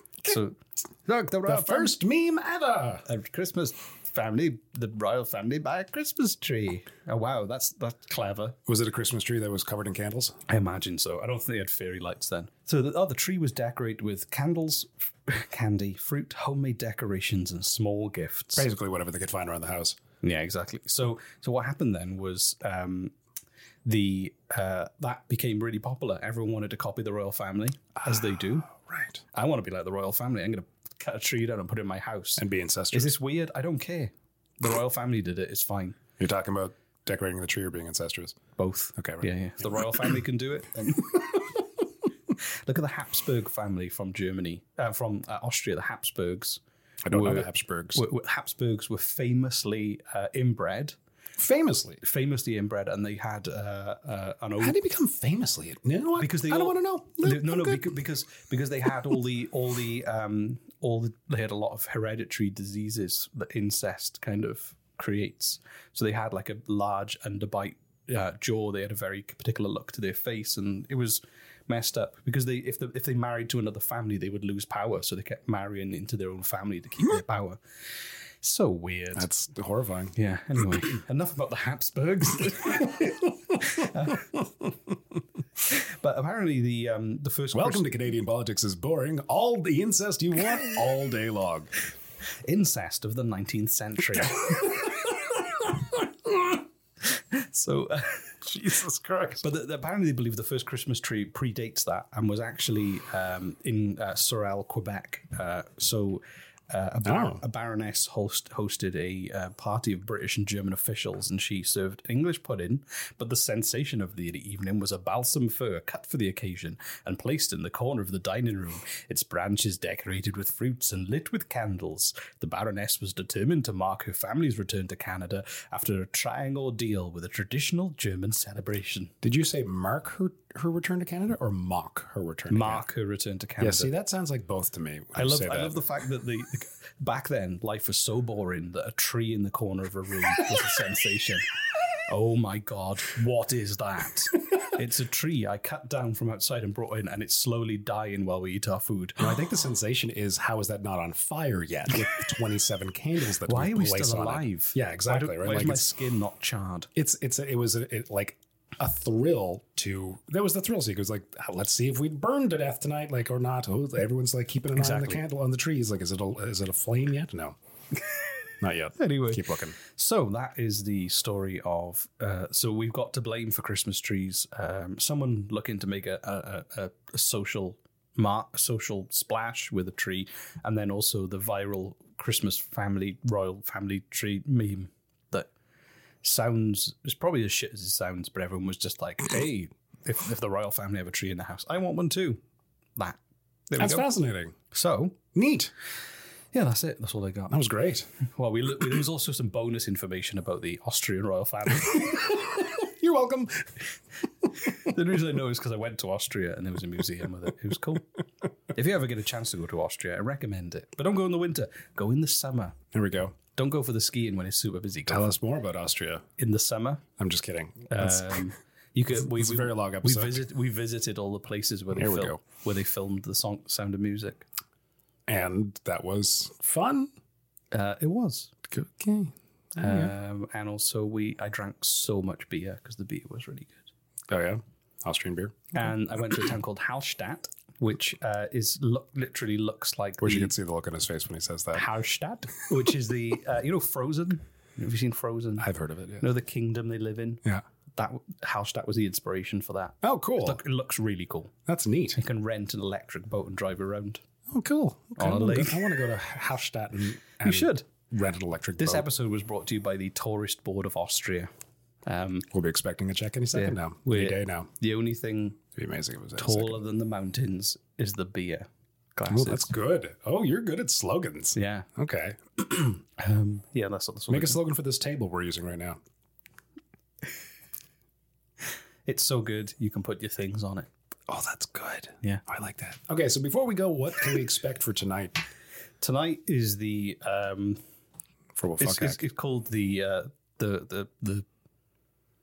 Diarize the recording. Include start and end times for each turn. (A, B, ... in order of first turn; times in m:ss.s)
0:00.2-0:02.0 A
0:01.4-0:03.0 B
0:03.0-0:08.6 A
0:08.7-0:10.4 B
0:10.5-0:18.6 A
0:18.6-0:20.0 B
0:20.2-0:23.1 A
0:23.8-0:28.7 A
0:28.7-0:29.2 B
0:29.3-0:36.0 A
0:32.4-0:33.1 B
0:36.2-0:38.4 B
0:38.6-0:41.5 A
0:39.0-0:40.1 B
0:42.6-0:46.6 A
0:47.0-0:48.0 B
0:47.1-0:51.0 A
0:51.4-0:52.0 B
0:52.0-0:54.8 A
0:54.6-0:57.9 B
0:56.2-1:17.6 A
1:18.4-1:19.2 A
1:19.2-1:20.2 B
1:20.2-1:24.4 A
1:25.6-1:27.8 A
1:27.5-1:31.7 B
1:32.4-1:34.9 A
1:36.3-1:38.7 A
1:38.7-1:39.4 B
1:39.3-2:09.1 A
1:47.0-1:47.4 B
2:09.2-2:12.8 B
2:12.5-2:13.9 A
2:13.6-2:15.9 B
2:15.1-2:21.4 A
2:22.1-2:29.2 A
2:29.2-2:35.9 B
2:33.5-2:36.9 A
2:37.0-2:47.6 B
2:44.7-2:45.2 A
2:48.6-2:49.8 B
2:49.0-3:05.5 A
3:06.2-3:12.4 A
3:13.7-3:14.0 A
3:13.8-3:14.5 B
3:14.7-3:15.2 A
3:15.3-3:15.7 B
3:16.5-3:17.6 A
3:17.5-3:18.1 B
3:18.3-3:22.3 A
3:22.7-3:23.7 B
3:24.7-3:28.1 A
3:28.7-3:32.8 A
3:32.9-3:33.4 B
3:33.5-3:35.3 A
3:35.1-3:36.2 B
3:36.4-3:37.0 A
3:37.2-3:38.4 B
3:37.9-3:44.4 A
3:39.1-3:40.4 B
3:42.0-3:42.4 B
3:45.3-3:47.1 B
3:47.7-3:48.5 A
3:48.7-3:50.1 B
3:49.8-3:53.9 A
3:54.3-3:55.9 B
3:55.7-4:00.5 A
4:00.2-4:01.8 B
4:01.7-4:05.6 A
4:05.6-4:06.3 B
4:06.2-4:07.4 A
4:08.0-4:11.5 A
4:10.0-4:10.6 B
4:11.6-4:12.2 B
4:12.1-4:14.2 A
4:14.5-4:19.1 B
4:15.2-4:15.8 A
4:17.4-4:17.9 A
4:18.8-4:21.5 A
4:22.1-4:22.5 A
4:22.5-4:24.7 B
4:23.5-4:25.6 A
4:25.7-4:26.8 B
4:26.4-4:29.7 A
4:29.3-4:33.0 B
4:31.5-4:31.9 A
4:33.2-4:34.6 A
4:34.3-4:36.0 B
4:39.0-4:40.9 A
4:41.3-4:45.4 B
4:46.0-4:47.8 A
4:48.6-4:49.2 B
4:48.8-4:51.4 A